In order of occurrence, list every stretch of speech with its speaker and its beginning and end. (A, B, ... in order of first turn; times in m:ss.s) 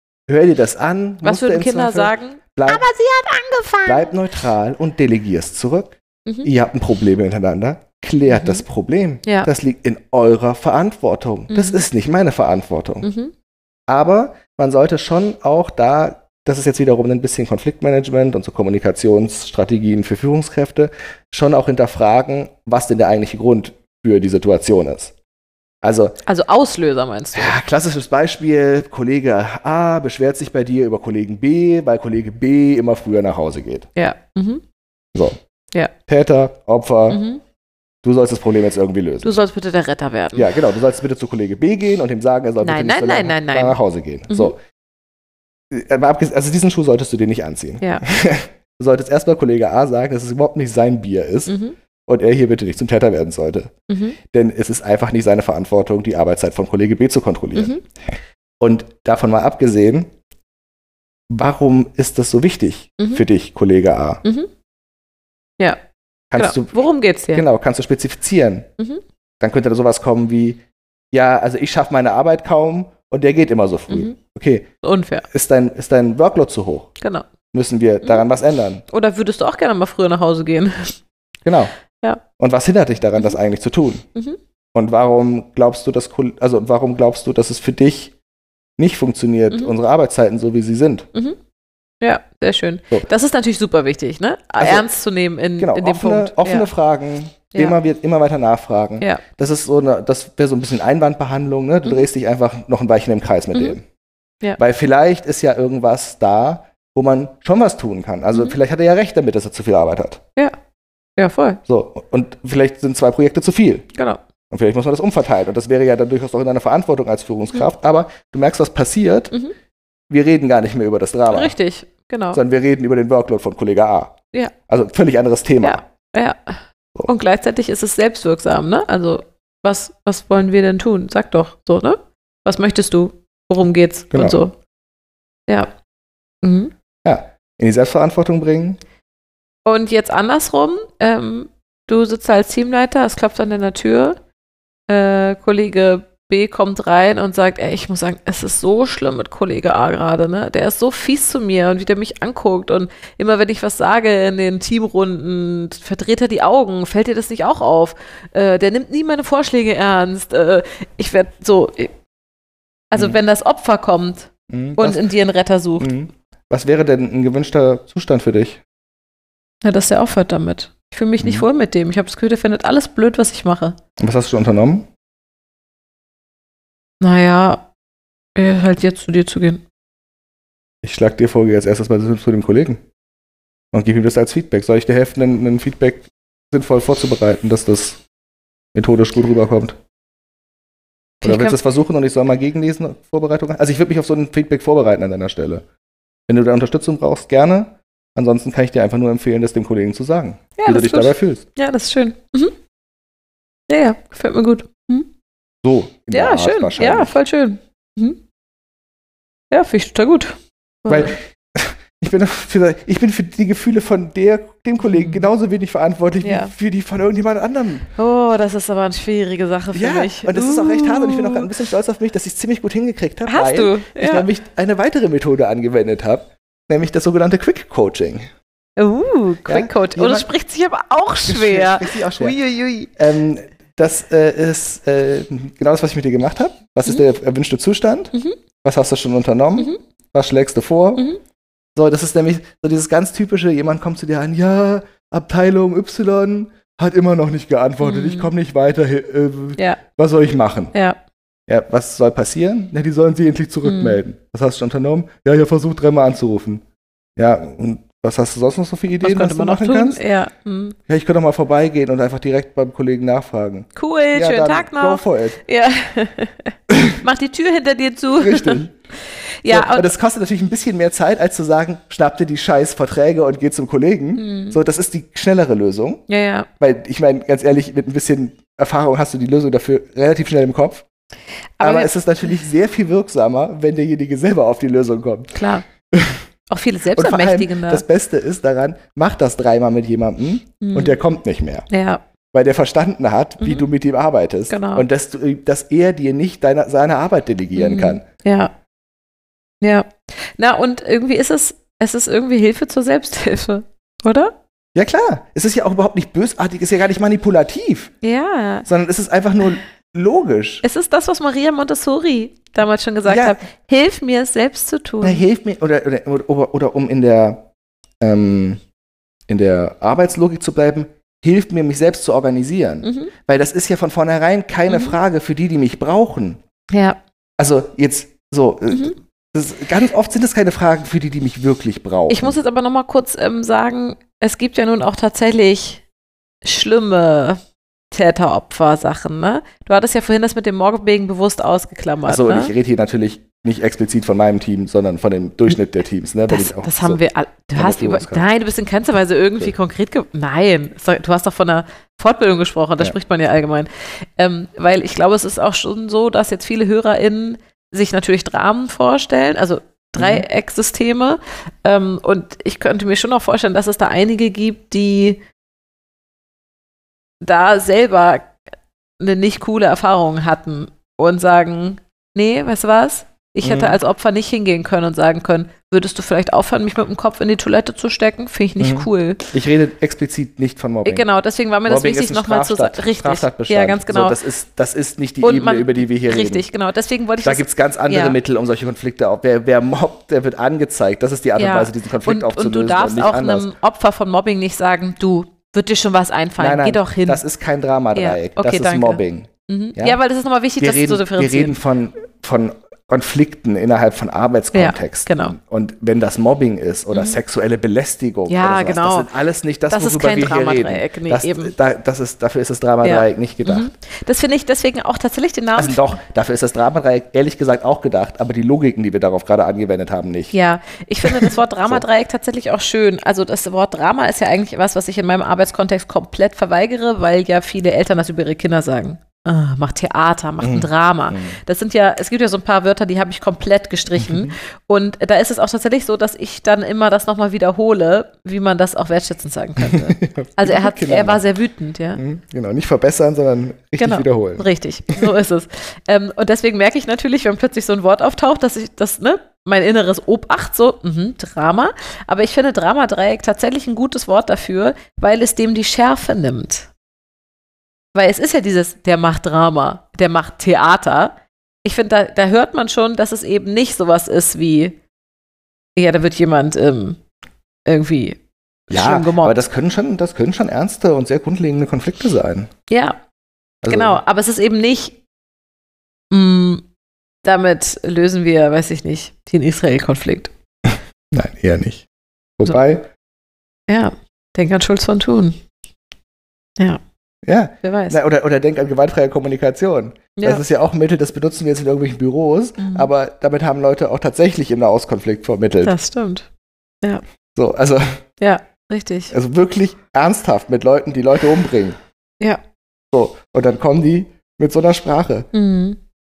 0:00.3-0:02.9 A
0:01.2-0:04.1 B
0:03.8-0:13.1 A
0:08.3-0:08.6 B
0:09.2-0:09.5 B
0:11.5-0:11.8 B
0:13.0-0:13.3 B
0:13.9-0:25.1 A
0:25.8-0:26.2 A
0:26.3-0:27.6 B
0:27.3-0:33.9 A
0:34.0-0:34.6 B
0:36.1-0:37.2 A
0:37.1-0:37.4 B
0:38.0-0:39.3 A
0:39.2-0:40.5 B
0:40.4-0:44.6 A
0:42.6-0:43.8 B
0:44.3-0:44.5 B
0:45.7-0:51.6 A
0:51.5-0:51.8 B
0:52.1-0:53.7 A
0:53.9-0:54.2 B
0:54.3-1:00.1 A
0:57.6-0:57.8 B
1:01.3-1:04.2 A
1:03.0-1:03.2 B
1:04.2-1:04.5 B
1:06.3-1:06.8 A
1:06.4-1:07.4 B
1:07.3-1:08.7 A
1:09.4-1:10.6 A
1:11.1-1:14.7 A
1:13.9-1:14.2 B
1:14.8-1:15.3 B
1:15.3-1:17.0 A
1:17.0-1:17.3 B
1:17.5-1:18.8 A
1:18.9-1:21.0 B
1:21.4-1:21.7 A
1:22.4-1:24.1 A
1:24.7-1:28.1 A
1:28.8-1:31.1 A
1:32.0-1:36.7 B
1:34.6-1:34.9 A
1:35.6-1:43.8 A
1:44.6-1:50.2 A
1:51.2-1:51.6 B
1:51.7-1:53.9 A
1:54.0-1:54.2 B
1:54.5-1:59.3 A
2:00.1-2:01.6 A
2:01.3-2:02.4 B
2:02.3-2:04.2 A
2:04.7-2:05.8 A
2:05.6-2:14.5 B
2:14.1-2:14.4 A
2:16.4-2:16.7 B
2:17.0-2:18.8 A
2:19.7-2:24.2 B
2:24.9-2:42.0 B
2:42.9-2:45.9 B
2:44.5-2:45.1 A
2:45.8-2:48.6 A
2:49.6-2:53.8 B
2:51.2-2:51.5 A
2:54.0-2:54.9 A
2:57.0-2:57.7 B
2:58.4-2:59.6 B
3:00.8-3:02.8 A
3:03.7-3:08.0 A
3:08.7-3:09.8 A
3:11.2-3:15.6 A
3:11.2-3:11.6 B
3:16.3-3:21.4 A
3:20.6-3:22.5 B
3:23.7-3:25.1 B
3:25.6-3:27.2 A
3:26.1-3:28.2 B
3:29.5-3:31.2 B
3:30.9-3:37.9 A
3:34.8-3:35.3 B
3:36.2-3:36.5 B
3:38.0-3:41.5 B
3:39.7-3:48.3 A
3:43.3-3:44.3 B
3:48.8-3:52.9 B
3:49.5-3:50.3 A
3:51.3-3:52.4 A
3:53.0-3:58.1 A
3:58.6-4:01.1 A
4:01.8-4:10.7 A
4:07.8-4:08.3 B
4:10.7-4:11.0 B
4:11.5-4:16.6 A
4:13.6-4:14.0 B
4:17.2-4:20.0 A
4:19.0-4:20.8 B
4:20.9-4:25.4 A
4:23.8-4:28.6 B
4:26.7-4:27.0 A
4:28.2-4:28.7 A
4:29.4-4:29.9 B
4:29.5-4:36.0 A
4:34.2-4:34.6 B
4:36.1-4:36.5 B
4:36.6-4:40.9 A
4:41.6-4:42.0 B
4:41.6-4:45.3 A
4:45.4-4:45.6 B
4:45.9-4:46.2 A
4:46.5-4:47.8 B
4:47.0-4:51.7 A
4:50.6-4:51.0 B
4:51.7-4:52.0 B
4:52.3-4:58.0 A
4:53.4-4:53.7 B
4:54.5-4:54.9 B
4:57.6-4:58.5 B
4:59.6-5:04.4 B
5:04.8-5:07.9 A
5:08.0-5:08.7 B
5:08.6-5:10.6 A
5:10.6-5:15.2 B
5:13.0-5:13.4 A
5:15.0-5:17.5 A
5:18.0-5:18.6 A
5:19.3-5:26.4 A
5:22.8-5:23.1 B
5:24.7-5:25.0 B
5:26.7-5:27.0 B
5:27.4-5:32.4 A
5:28.7-5:29.0 B
5:32.1-5:35.8 B
5:36.4-5:37.4 B
5:37.9-5:42.5 B
5:42.1-5:47.0 A
5:46.3-6:05.2 B
5:47.6-5:48.3 A
6:00.0-6:00.2 A
6:07.2-6:08.4 B
6:09.0-6:19.2 B
6:13.4-6:13.8 A
6:18.6-6:21.1 A
6:20.8-6:24.2 B
6:21.7-6:26.5 A
6:25.2-6:28.2 B
6:27.2-6:33.5 A
6:31.4-6:37.2 B
6:36.4-6:40.0 A
6:37.9-6:41.6 B
6:40.6-6:53.7 A
6:44.5-6:45.4 B
6:46.9-6:47.2 B
6:48.3-6:49.1 B
6:49.7-6:51.5 B
6:52.8-6:55.8 B
6:55.6-7:00.3 A
7:00.3-7:22.0 B
7:01.0-7:01.8 A
7:10.4-7:11.4 A
7:14.0-7:14.3 A
7:19.6-7:21.2 A
7:22.0-7:24.5 A
7:23.8-7:36.7 B
7:37.9-7:44.8 B
7:45.8-7:47.0 B
7:47.7-7:49.4 B
7:48.7-7:52.5 A
7:52.7-7:53.0 B
7:53.6-7:54.0 A
7:53.7-7:55.0 B
7:56.1-7:56.6 B
7:57.2-8:00.3 B
8:01.1-8:01.9 A
8:02.4-8:02.9 A
8:03.7-8:05.4 B
8:07.2-8:15.8 A
8:07.6-8:08.0 B
8:10.2-8:10.4 B
8:12.6-8:12.9 B
8:15.6-8:16.3 B
8:17.4-8:18.0 A
8:18.2-8:19.1 B
8:19.1-8:21.8 A
8:22.9-8:25.3 A
8:25.3-8:25.8 B